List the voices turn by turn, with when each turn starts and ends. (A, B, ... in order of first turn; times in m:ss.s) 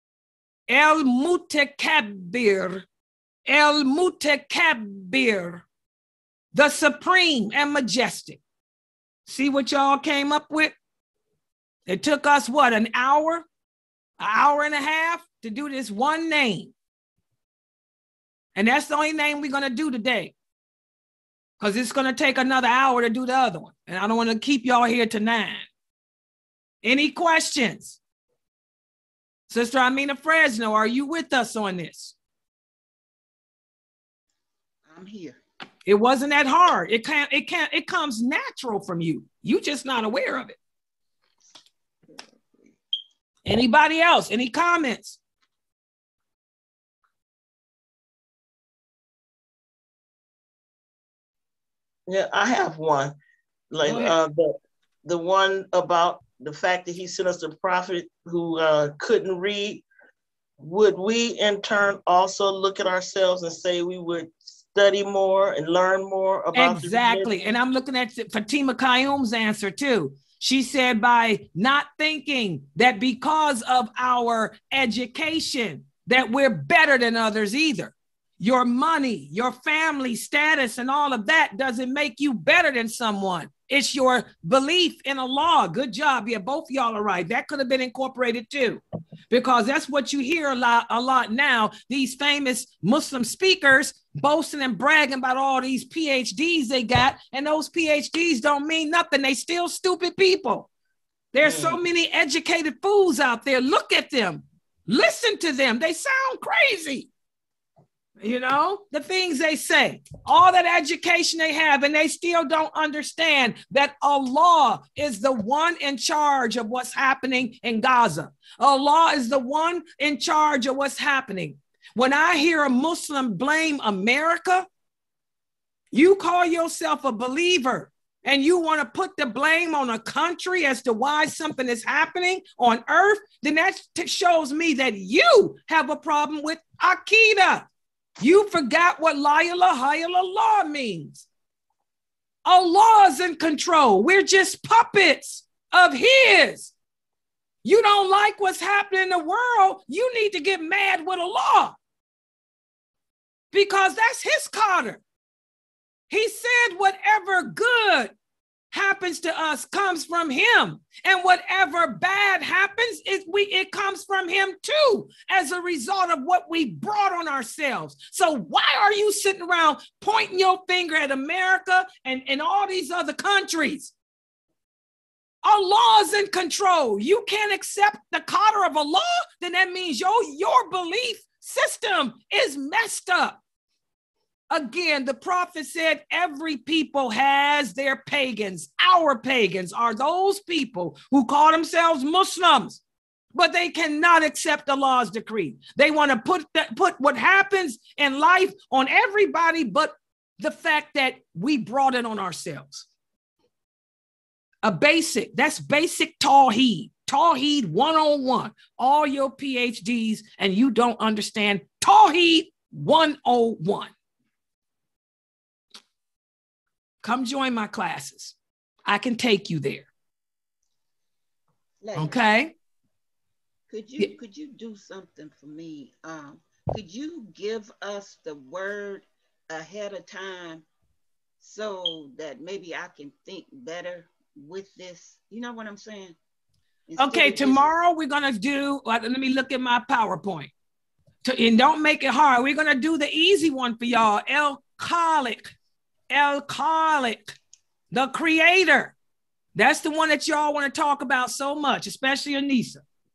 0:00.7-0:02.8 A
0:03.4-0:05.6 A
0:06.5-0:08.4 A
0:09.2-0:10.7 A
0:11.9-0:13.4 A
0:14.2-0:16.7 A
0:18.5-0:20.3 A
0:21.6-0:25.6 A
0:26.8-0:28.0 A
0:29.5-0:32.1 A
0:34.9-0:35.4 B
0:35.8-0:40.6 A
0:43.4-0:45.2 A
0:52.1-0:53.1 C
0:53.7-0:54.5 C
0:53.8-0:54.2 A
0:55.0-0:59.8 C
1:00.6-1:07.3 C
1:06.5-1:40.7 A
1:41.3-1:47.1 A
1:41.4-1:41.8 C
1:48.2-2:04.6 A
2:05.9-2:17.7 A
2:18.2-2:21.3 A
2:22.4-2:26.7 A
2:27.6-2:31.8 A
2:33.5-2:35.0 A
2:36.1-2:38.1 A
2:38.7-2:53.9 A
2:55.4-3:03.4 A
3:04.5-3:12.8 A
3:13.3-3:22.9 A
3:24.6-3:33.9 A
3:37.0-3:38.3 A
3:38.8-3:39.9 A
3:41.8-3:42.2 B
3:42.0-3:42.5 A
3:43.7-3:50.6 B
3:51.4-3:56.2 B
3:56.9-3:57.7 B
3:57.0-4:00.5 A
4:01.2-4:05.5 A
4:06.1-4:07.4 A
4:07.9-4:08.9 A
4:09.5-4:12.8 A